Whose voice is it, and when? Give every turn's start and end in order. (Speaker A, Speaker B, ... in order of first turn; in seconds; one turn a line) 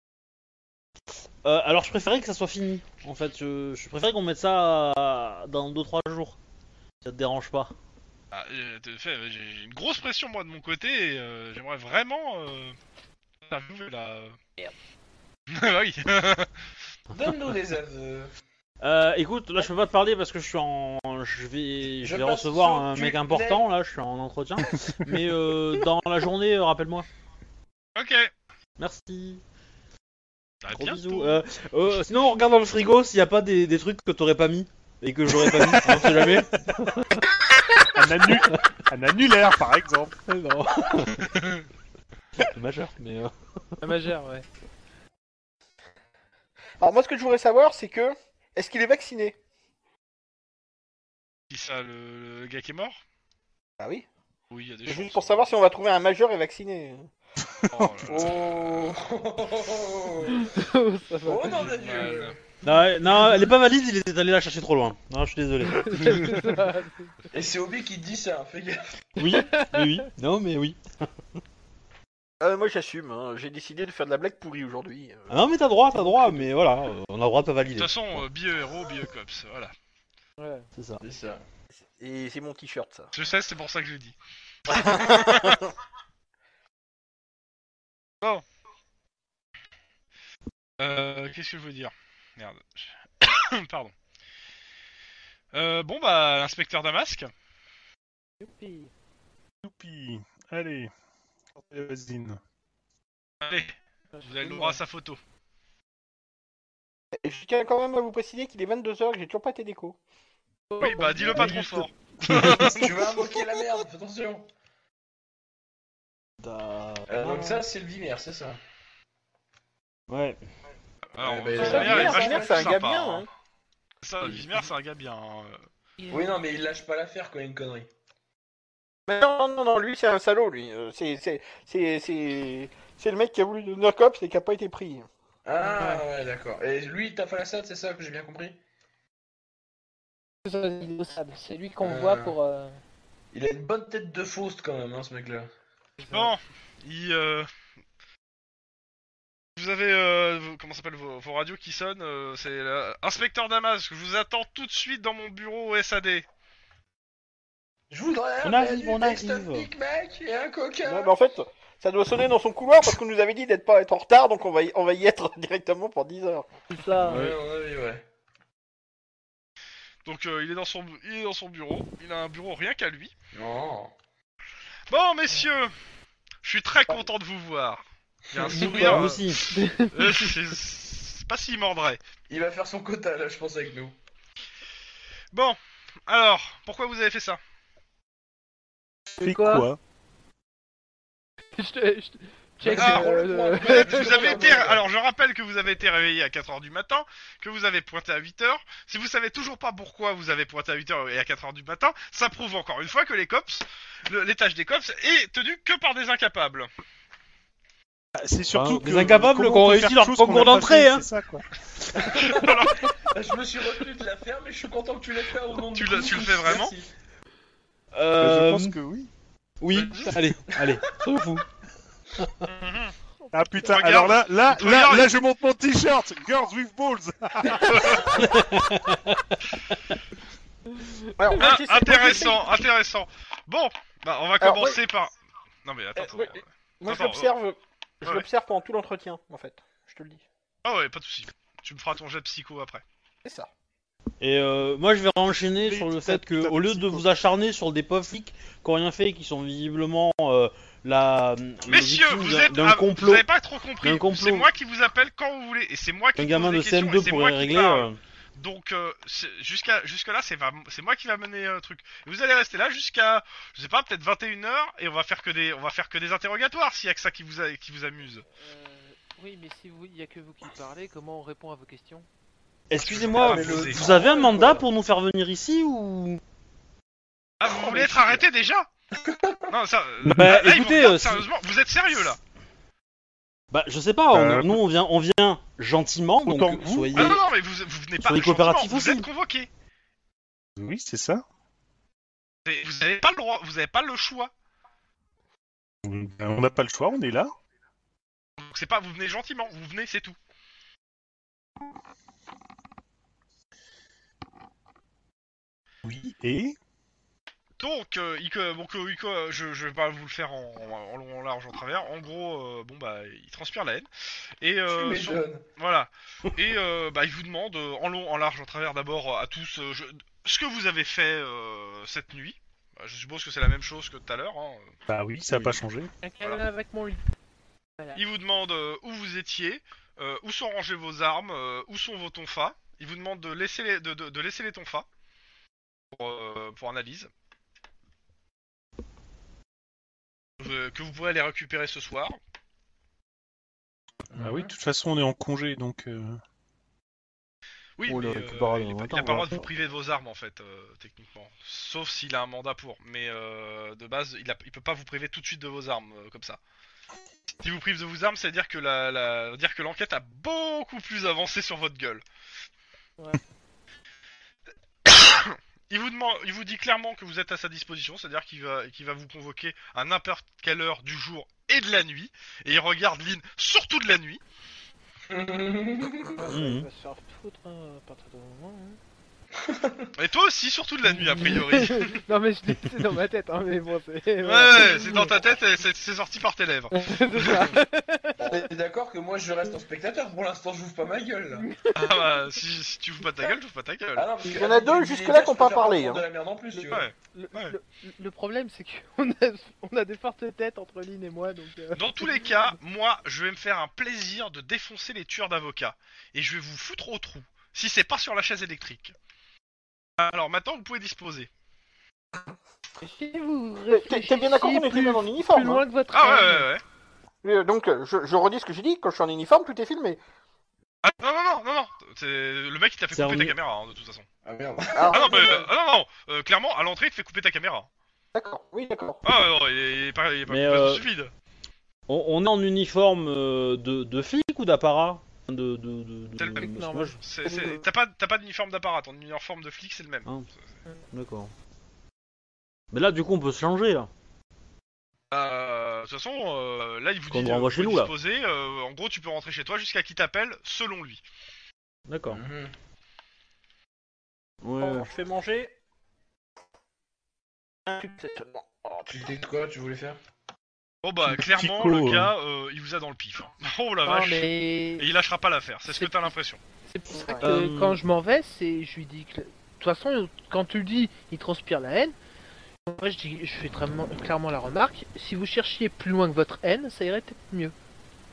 Speaker A: 1.4-6.4
Speaker A: 7.0-7.7
Speaker B: 8.3-12.8
Speaker B: 13.5-14.4
Speaker B: 15.5-16.5
Speaker C: 17.1-18.3
Speaker A: 18.8-27.1
Speaker C: 22.0-23.7
Speaker D: 24.6-25.0
Speaker B: 27.9-28.3
Speaker A: 28.8-29.4
Speaker B: 30.6-31.4
Speaker A: 30.8-37.3
Speaker D: 35.5-36.9
Speaker D: 37.9-40.2
Speaker A: 40.3-41.4
Speaker A: 42.4-43.3
Speaker E: 43.8-44.5
Speaker F: 46.8-49.4
Speaker B: 51.5-53.0
Speaker F: 53.8-54.1
Speaker B: 54.5-55.5
Speaker F: 54.9-57.1
Speaker D: 57.4-58.3
Speaker B: 57.7-58.9
Speaker C: 58.1-60.5
Speaker E: 60.3-62.1
Speaker C: 61.2-62.4
Speaker B: 61.6-62.4
Speaker A: 62.6-66.4
Speaker E: 65.7-67.1
Speaker C: 67.3-69.0
Speaker A: 69.2-70.8
Speaker E: 69.3-69.9
Speaker F: 72.4-75.4
Speaker A: 75.3-78.2
Speaker B: 77.8-79.7
Speaker E: 80.4-80.7
Speaker A: 80.8-81.0
Speaker C: 81.0-81.4
Speaker F: 81.9-83.1
Speaker B: 83.1-84.2
Speaker B: 84.7-85.6
Speaker F: 84.7-85.7
Speaker B: 90.8-93.9
Speaker B: 95.5-97.3
Speaker E: 98.4-98.9
Speaker D: 99.6-100.9
Speaker D: 101.5-102.4
Speaker B: 103.4-105.2
Speaker E: 104.1-104.8
Speaker F: 107.2-110.0
Speaker E: 110.7-111.8
Speaker B: 110.8-112.9
Speaker C: 111.3-111.6
Speaker C: 112.4-114.5
Speaker A: 116.4-117.5
Speaker C: 117.1-118.6
Speaker A: 120.1-120.4
Speaker B: 121.2-123.3
Speaker C: 121.2-122.8
Speaker A: 121.4-122.0
Speaker F: 121.6-123.3
Speaker B: 124.0-125.7
Speaker E: 126.0-126.4
Speaker C: 126.1-127.9
Speaker F: 129.1-135.1
Speaker C: 135.4-138.6
Speaker E: 135.6-136.0
Speaker E: 140.4-142.8
Speaker C: 141.8-142.4
Speaker C: 143.3-145.5
Speaker E: 146.0-146.3
Speaker B: 146.1-147.5
Speaker B: 149.6-156.3
Speaker C: 157.9-161.1
Speaker A: 158.4-159.7
Speaker F: 160.8-166.5
Speaker E: 166.7-167.3
Speaker C: 167.0-168.1
Speaker B: 170.1-173.1
Speaker C: 173.3-173.9
Speaker B: 174.9-175.8
Speaker B: 176.4-182.0
Speaker C: 178.3-178.8
Speaker E: 178.6-180.3
Speaker A: 178.7-179.4
Speaker C: 182.3-184.0
Speaker B: 185.3-187.4
Speaker E: 189.2-189.7
Speaker D: 189.2-189.8
Speaker E: 191.5-194.7
Speaker C: 192.6-194.8
Speaker B: 192.7-206.7
Speaker D: 208.2-211.4
Speaker A: 208.5-211.0
Speaker C: 211.9-216.9
Speaker B: 212.0-212.9
Speaker B: 215.7-216.7
Speaker A: 217.9-218.8
Speaker D: 218.2-219.1
Speaker A: 219.6-221.4
Speaker B: 219.7-220.1
Speaker E: 221.1-221.4
Speaker A: 222.2-222.5
Speaker B: 222.4-222.9
Speaker D: 223.3-228.1
Speaker B: 223.7-225.2
Speaker B: 227.5-228.3
Speaker A: 228.1-229.9
Speaker E: 230.7-231.4
Speaker F: 231.2-232.4
Speaker B: 231.4-235.1
Speaker F: 234.4-234.8
Speaker B: 235.7-237.3
Speaker F: 236.0-240.2
Speaker B: 240.6-242.8
Speaker A: 244.2-253.2
Speaker D: 245.6-247.1
Speaker B: 251.7-268.2
Speaker A: 253.8-254.5
Speaker A: 256.2-258.0
Speaker E: 268.4-272.1
Speaker A: 272.7-276.2
Speaker B: 272.8-273.8
Speaker C: 273.1-274.7
Speaker B: 277.4-278.7
Speaker C: 279.0-279.5
Speaker B: 279.5-282.2
Speaker D: 280.1-280.3
Speaker A: 280.1-281.3
Speaker A: 283.5-287.2
Speaker D: 284.1-284.6
Speaker D: 286.2-287.2
Speaker B: 286.9-289.5
Speaker A: 288.0-289.1
Speaker D: 290.6-291.2
Speaker B: 292.5-294.3
Speaker D: 295.8-297.3
Speaker B: 298.4-300.2
Speaker D: 305.8-306.6
Speaker B: 307.6-313.9
Speaker B: 314.4-324.8
Speaker C: 314.7-315.4
Speaker D: 324.9-325.9
Speaker E: 326.0-327.0
Speaker B: 327.9-334.9
Speaker B: 335.9-337.1
Speaker B: 340.4-342.2
Speaker C: 344.1-344.5
Speaker D: 344.2-346.2
Speaker B: 347.8-356.4
Speaker A: 347.8-349.5
Speaker B: 357.4-362.0
Speaker B: 364.9-374.2
Speaker C: 375.1-376.2
Speaker E: 376.2-378.8
Speaker A: 376.3-376.7
Speaker C: 379.4-379.9
Speaker B: 380.0-382.0
Speaker E: 381.0-385.3
Speaker B: 384.2-387.5
Speaker E: 386.7-388.4
Speaker C: 388.2-391.5
Speaker E: 391.4-392.1
Speaker B: 391.7-394.1
Speaker C: 394.0-396.9
Speaker F: 394.2-396.0
Speaker E: 396.6-402.3
Speaker B: 396.7-397.6
Speaker B: 401.8-408.9
Speaker B: 410.0-411.3
Speaker E: 412.8-416.5
Speaker F: 413.7-415.7
Speaker B: 415.9-416.6
Speaker F: 417.2-420.0
Speaker B: 420.8-424.1
Speaker A: 422.9-423.4
Speaker C: 424.2-425.4
Speaker F: 424.8-425.4
Speaker B: 424.9-427.7
Speaker F: 428.1-429.0
Speaker B: 429.1-431.1
Speaker A: 430.3-430.8
Speaker A: 431.9-437.0
Speaker B: 436.2-440.1
Speaker E: 436.4-437.6
Speaker A: 440.9-441.3
Speaker A: 442.7-443.9
Speaker B: 445.1-451.0
Speaker A: 447.1-447.9
Speaker A: 451.9-452.2
Speaker C: 452.1-452.5
Speaker A: 454.4-454.9
Speaker F: 454.6-455.5
Speaker F: 457.7-459.1
Speaker C: 458.9-460.0
Speaker B: 460.8-466.4
Speaker D: 461.0-462.1
Speaker E: 463.9-464.9
Speaker E: 465.7-466.1
Speaker E: 466.7-472.0
Speaker F: 466.9-467.4
Speaker A: 467.2-467.8
Speaker E: 472.6-477.5